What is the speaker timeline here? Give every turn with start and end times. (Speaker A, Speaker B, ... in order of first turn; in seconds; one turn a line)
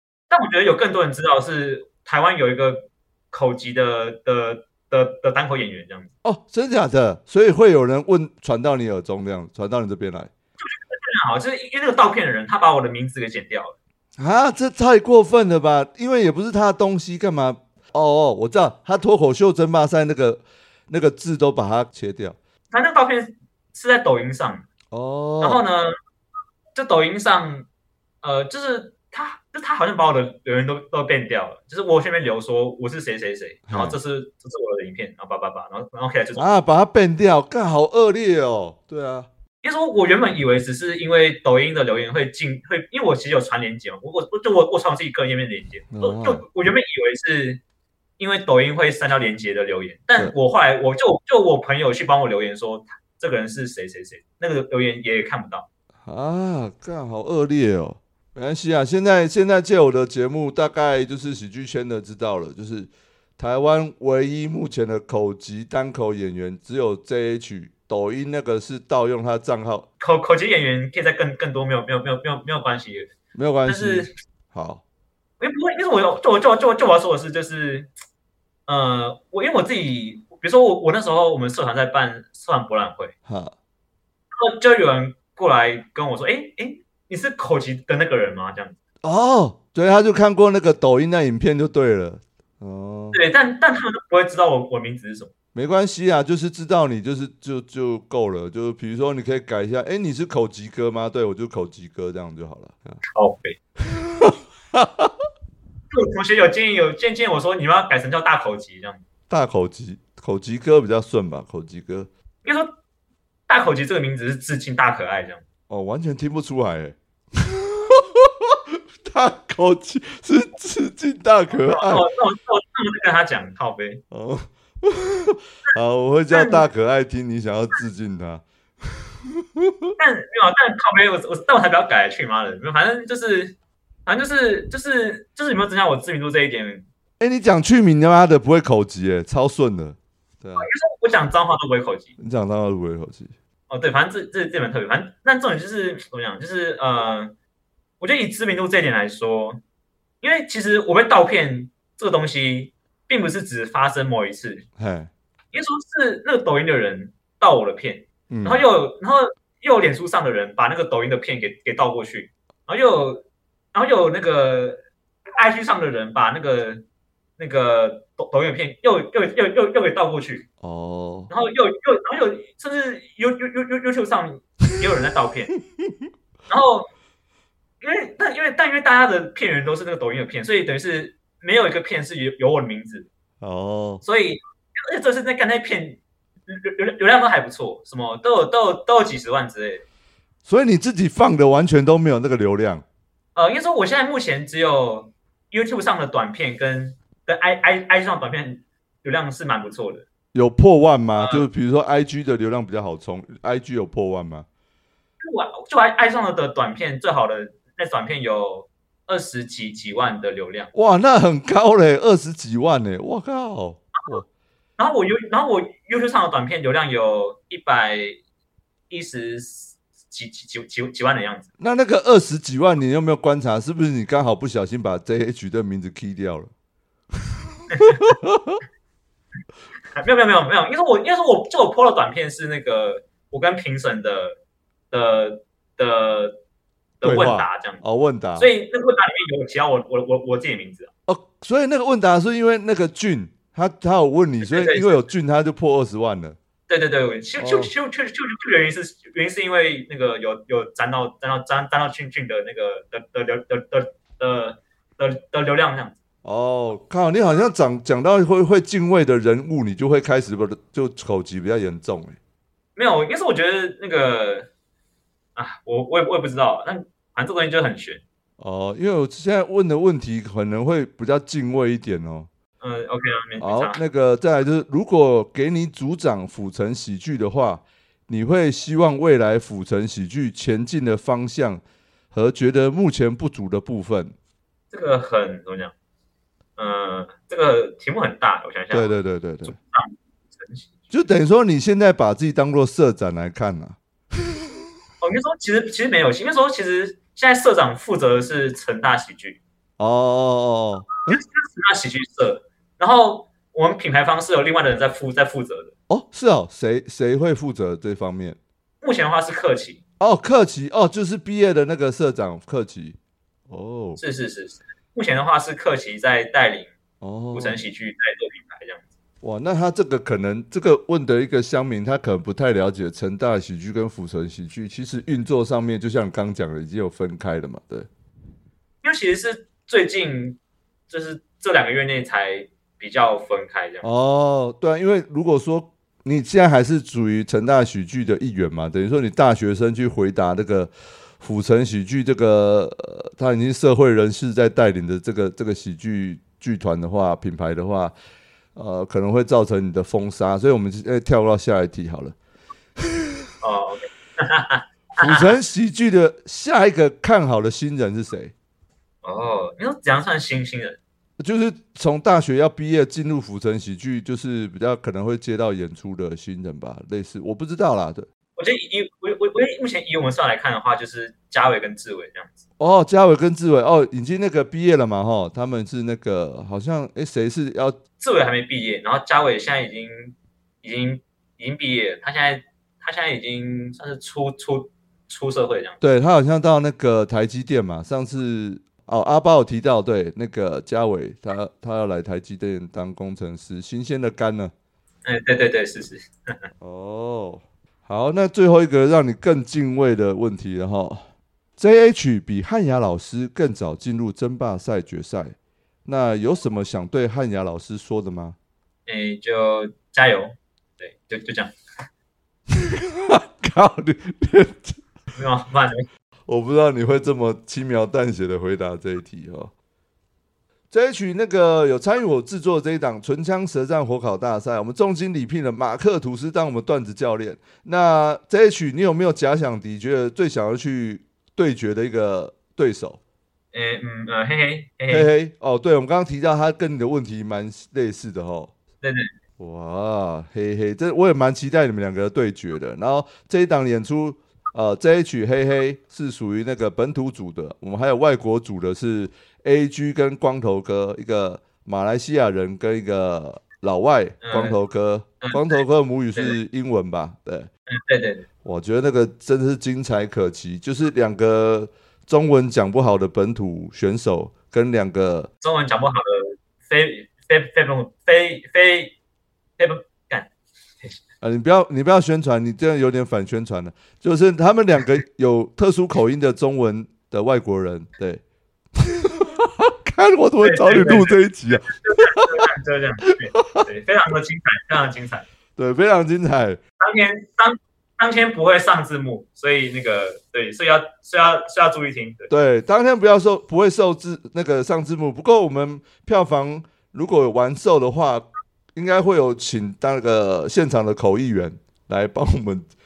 Speaker A: 0.3-6.1
Speaker B: 6.2-10.3
Speaker A: 10.6-13.8
Speaker B: 14.2-22.4
Speaker A: 22.7-24.7
Speaker B: 24.9-25.6
Speaker A: 25.4-25.9
Speaker A: 26.8-27.7
Speaker A: 28.2-36.5
Speaker B: 33.7-34.0
Speaker B: 36.4-39.3
Speaker A: 39.6-47.6
Speaker B: 45.9-46.4
Speaker A: 48.2-55.7
Speaker B: 56.0-69.9
Speaker A: 70.0-73.1
Speaker B: 73.3-74.8
Speaker A: 73.7-74.1
Speaker A: 75.4-77.9
Speaker A: 78.7-83.1
Speaker B: 83.3-83.5
Speaker A: 84.3-88.8
Speaker B: 89.0-93.2
Speaker A: 93.1-95.3
Speaker B: 95.5-103.0
Speaker A: 103.1-103.6
Speaker B: 103.8-105.1
Speaker A: 105.9-109.0
Speaker B: 109.3-112.1
Speaker A: 112.4-112.7
Speaker A: 113.5-115.4
Speaker B: 115.7-122.1
Speaker A: 121.5-124.0
Speaker B: 124.1-129.9
Speaker A: 126.3-126.6
Speaker A: 130.0-136.9
Speaker B: 137.2-140.7
Speaker A: 140.6-142.2
Speaker B: 142.2-143.3
Speaker A: 143.7-147.3
Speaker A: 148.0-149.6
Speaker A: 150.2-154.7
Speaker B: 154.8-155.1
Speaker A: 155.5-164.8
Speaker B: 158.3-158.6
Speaker A: 165.4-166.8
Speaker A: 167.4-170.5
Speaker B: 170.6-171.3
Speaker A: 171.3-175.6
Speaker A: 176.5-176.9
Speaker A: 177.8-183.1
Speaker B: 183.4-184.0
Speaker A: 184.0-189.8
Speaker B: 190.4-192.8
Speaker A: 193.3-200.1
Speaker B: 200.3-204.5
Speaker A: 201.2-201.5
Speaker A: 205.2-210.7
Speaker B: 210.7-214.3
Speaker A: 214.8-218.2
Speaker A: 218.9-221.5
Speaker B: 221.6-226.5
Speaker A: 227.7-228.0
Speaker B: 228.1-228.6
Speaker A: 230.0-234.4
Speaker A: 234.9-236.4
Speaker A: 237.0-237.8
Speaker B: 237.0-238.5
Speaker A: 238.4-240.9
Speaker B: 241.1-246.4
Speaker A: 244.4-245.0
Speaker A: 246.7-256.0
Speaker B: 247.4-247.7
Speaker B: 256.2-262.2
Speaker A: 262.8-264.5
Speaker A: 265.4-268.0
Speaker B: 268.4-272.3
Speaker A: 272.6-273.8
Speaker B: 273.4-284.1
Speaker A: 284.7-285.7
Speaker A: 286.6-290.9
Speaker B: 288.7-289.6
Speaker B: 290.9-293.8
Speaker A: 295.0-299.4
Speaker B: 299.8-301.2
Speaker A: 301.1-305.7
Speaker B: 305.9-308.4
Speaker A: 308.8-309.8
Speaker B: 310.0-313.0
Speaker B: 313.5-314.0
Speaker A: 314.0-316.7
Speaker B: 317.0-317.6
Speaker A: 317.3-318.8
Speaker B: 319.2-327.9
Speaker A: 328.8-333.9
Speaker B: 333.8-348.0
Speaker B: 348.6-352.2
Speaker A: 353.4-355.3
Speaker B: 355.0-358.3
Speaker A: 359.0-360.8
Speaker B: 361.2-368.1
Speaker A: 368.4-372.4
Speaker B: 372.6-377.8
Speaker A: 378.0-385.8
Speaker B: 385.8-394.5
Speaker A: 395.1-396.5
Speaker B: 396.6-401.1
Speaker B: 401.6-408.4
Speaker A: 408.9-411.5
Speaker B: 412.5-414.8
Speaker A: 415.1-415.9
Speaker B: 416.3-419.5
Speaker B: 420.7-433.0
Speaker A: 433.5-435.1
Speaker B: 434.9-438.5
Speaker A: 438.8-439.1
Speaker B: 439.4-457.5
Speaker A: 454.2-454.6
Speaker A: 455.2-455.6
Speaker A: 457.7-458.3
Speaker B: 458.4-465.3
Speaker A: 465.4-468.9
Speaker A: 469.6-470.3
Speaker B: 471.2-478.2
Speaker B: 478.8-482.5
Speaker A: 480.4-485.3
Speaker B: 483.4-483.7
Speaker B: 485.6-486.6
Speaker A: 486.8-492.3
Speaker B: 492.3-502.7